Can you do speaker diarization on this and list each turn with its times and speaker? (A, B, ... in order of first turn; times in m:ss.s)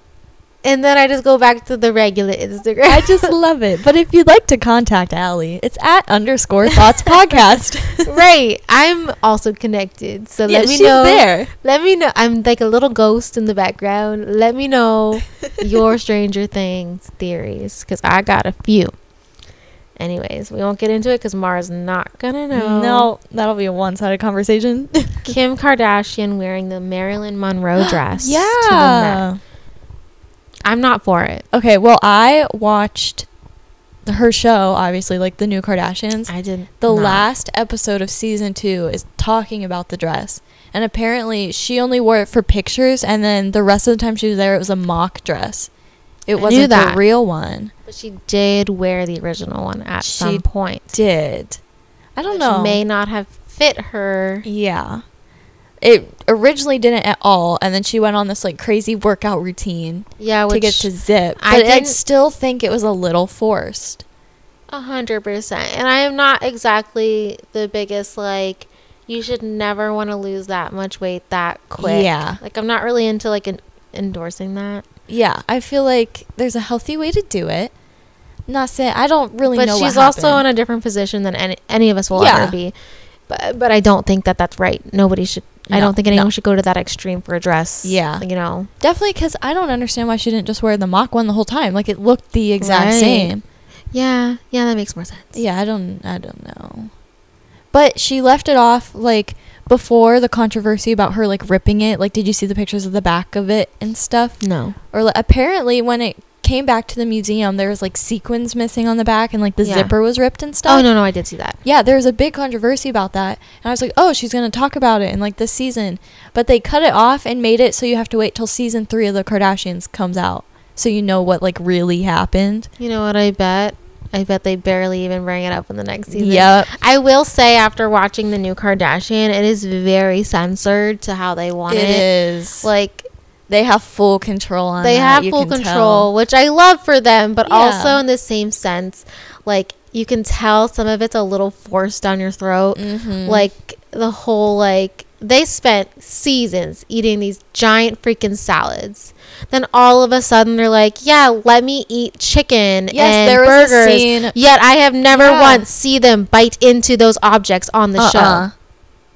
0:00.6-0:03.3 A
0:02.9-0:08.2 B
0:08.0-0:18.9 A
0:10.5-0:11.5 B
0:20.0-0:23.1 A
0:22.5-0:25.3 B
0:25.2-0:29.2 A
0:27.8-0:29.4 B
0:30.6-0:31.4 A
0:31.5-0:33.3 B
0:34.0-0:45.7 B
0:36.3-0:37.2 A
0:46.3-0:47.7 B
0:46.4-0:47.0 A
0:47.8-0:51.0 A
0:50.0-0:51.6 B
0:52.2-0:52.8 B
0:52.3-0:54.4 A
0:54.4-0:55.0 B
0:55.8-1:04.0 B
1:00.2-1:02.0 A
1:04.7-1:14.8 A
1:11.8-1:12.4 B
1:15.1-1:17.7 B
1:18.5-1:20.4 B
1:19.5-1:22.7 A
1:22.1-1:22.6 B
1:23.3-1:28.7 A
1:25.7-1:26.3 B
1:27.8-1:28.2 B
1:28.8-1:33.4 B
1:32.6-1:33.3 A
1:33.9-1:35.4 A
1:35.3-1:36.9 B
1:37.7-1:50.9 B
1:44.4-1:44.8 A
1:49.6-1:49.9 A
1:50.6-1:51.6 A
1:51.6-2:02.7 B
2:02.8-2:12.1 A
2:06.1-2:06.7 B
2:11.7-2:12.7 B
2:12.6-2:13.0 A
2:13.5-2:16.1 B
2:14.8-2:38.5 A
2:17.4-2:18.0 B
2:22.7-2:23.5 B
2:32.9-2:34.3 B
2:35.1-2:35.6 B
2:38.0-2:38.5 B